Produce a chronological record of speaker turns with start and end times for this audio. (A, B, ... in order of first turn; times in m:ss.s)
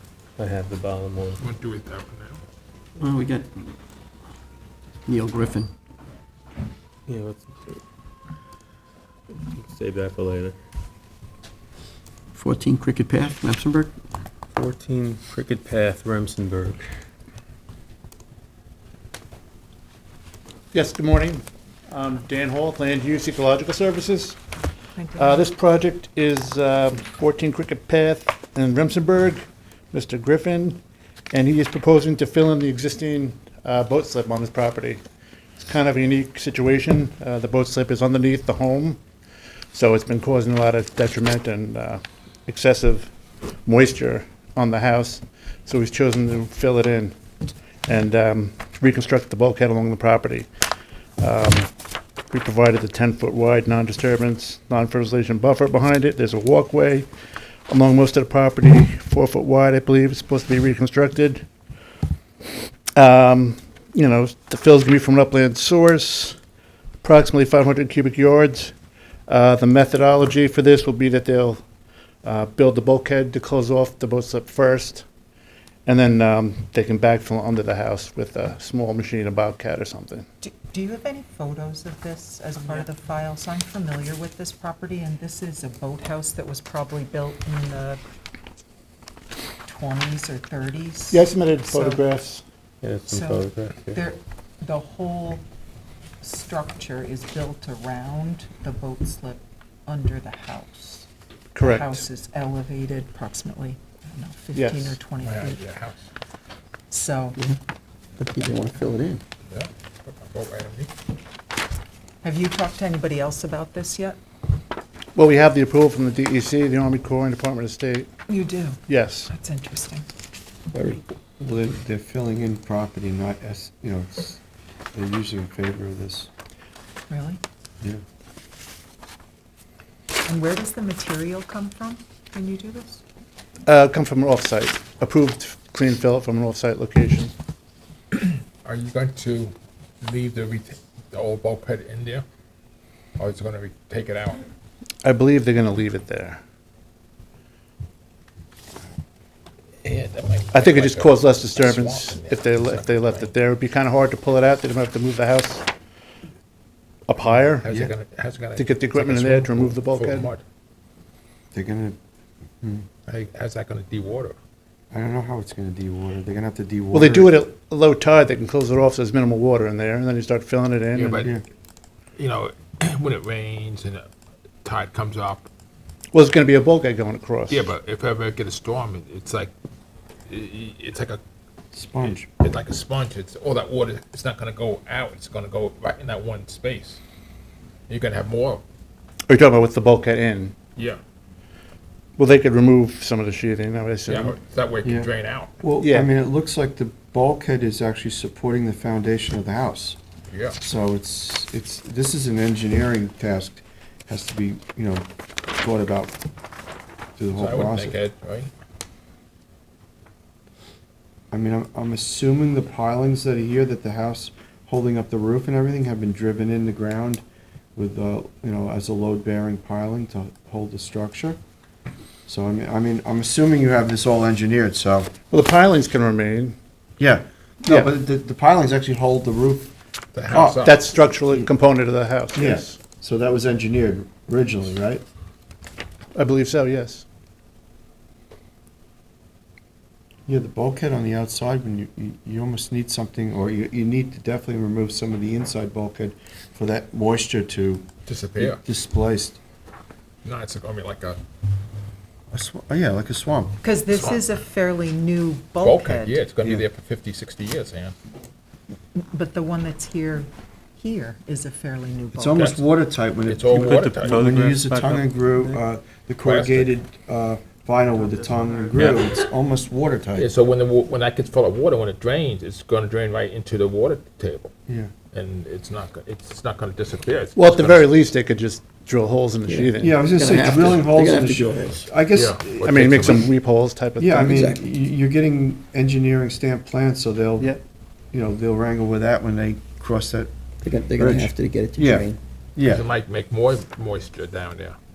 0:00.4-0:01.4 A
0:01.4-0:02.4 B
0:03.0-0:03.5 C
0:05.1-0:05.7 C
0:07.1-0:07.8 A
0:09.5-0:10.6 A
0:12.4-0:13.9 C
0:14.5-0:16.8 A
0:20.7-0:24.4 D
0:25.0-0:25.5 E
0:25.2-0:30.8 D
0:31.3-0:35.0 D
0:35.6-0:39.0 D
0:39.7-0:43.1 D
0:43.6-0:47.1 D
0:47.8-0:50.5 D
0:51.2-0:51.7 D
0:52.3-0:57.1 D
0:57.7-1:01.4 D
1:03.0-1:06.4 D
1:07.0-1:08.8 D
1:09.3-1:11.6 D
1:12.2-1:15.0 D
1:15.9-1:20.3 D
1:20.4-1:28.0 E
1:29.7-1:32.0 E
1:31.1-1:32.4 D
1:32.8-1:34.0 A
1:33.1-1:35.4 E
1:36.2-1:41.1 E
1:41.5-1:42.0 D
1:41.6-1:45.6 E
1:44.6-1:45.0 D
1:45.2-1:46.0 B
1:46.9-1:47.4 E
1:48.2-1:49.2 C
1:49.5-1:50.9 B
1:52.2-1:54.2 E
1:55.2-1:58.1 D
1:58.3-2:00.1 E
1:58.9-1:59.3 D
2:01.4-2:04.4 F
2:04.9-2:06.3 F
2:07.1-2:07.4 E
2:10.2-2:13.0 E
2:13.7-2:17.3 D
2:18.1-2:22.2 B
2:23.2-2:24.4 B
2:25.0-2:26.4 D
2:29.8-2:33.3 B
2:30.5-2:35.7 D
2:37.1-2:37.7 D
2:37.6-2:40.4 B
2:37.6-2:37.9 F
2:38.6-2:40.3 D
2:41.5-2:42.0 F
2:42.6-2:42.8 F
2:43.1-2:44.3 B
2:44.9-2:47.4 F
2:46.9-2:51.3 D
2:50.9-2:51.3 B
2:52.2-2:54.0 B
2:54.6-2:55.5 B
2:56.1-2:57.6 D
2:57.5-2:59.5 B
3:00.3-3:01.2 B
3:01.7-3:02.3 F
3:02.0-3:07.0 B
3:07.9-3:08.6 B
3:09.3-3:10.5 D
3:12.2-3:14.3 D
3:14.1-3:15.5 B
3:14.8-3:15.1 F
3:15.6-3:20.0 F
3:15.8-3:16.1 D
3:20.3-3:20.6 B
3:20.6-3:25.0 F
3:25.6-3:26.2 F
3:27.2-3:28.0 F
3:27.3-3:28.5 B
3:31.3-3:37.2 F
3:37.7-3:41.4 F
3:42.3-3:45.1 F
3:45.3-3:46.6 D
3:47.0-3:49.7 F
3:50.1-3:50.9 B
3:50.3-3:50.7 F
3:50.6-3:52.7 D
3:52.3-3:55.0 F
3:56.1-3:57.0 D
4:00.3-4:09.4 F
4:08.1-4:08.6 B
4:10.2-4:11.2 B
4:12.3-4:13.6 F
4:13.6-4:16.2 E
4:13.9-4:14.2 B
4:15.6-4:17.9 B
4:18.9-4:22.4 E
4:22.1-4:30.3 F
4:22.3-4:22.6 B
4:23.2-4:24.2 B
4:23.6-4:25.0 A
4:26.2-4:26.7 B
4:30.2-4:34.5 B
4:35.1-4:37.9 B
4:37.4-4:40.0 D
4:39.5-4:41.8 C
4:39.8-4:43.3 F
4:42.1-4:43.2 B
4:42.6-4:44.5 D
4:44.0-4:47.6 F
4:48.1-4:50.3 F
4:50.6-4:52.2 C
4:51.0-4:52.8 F
4:52.6-4:54.8 B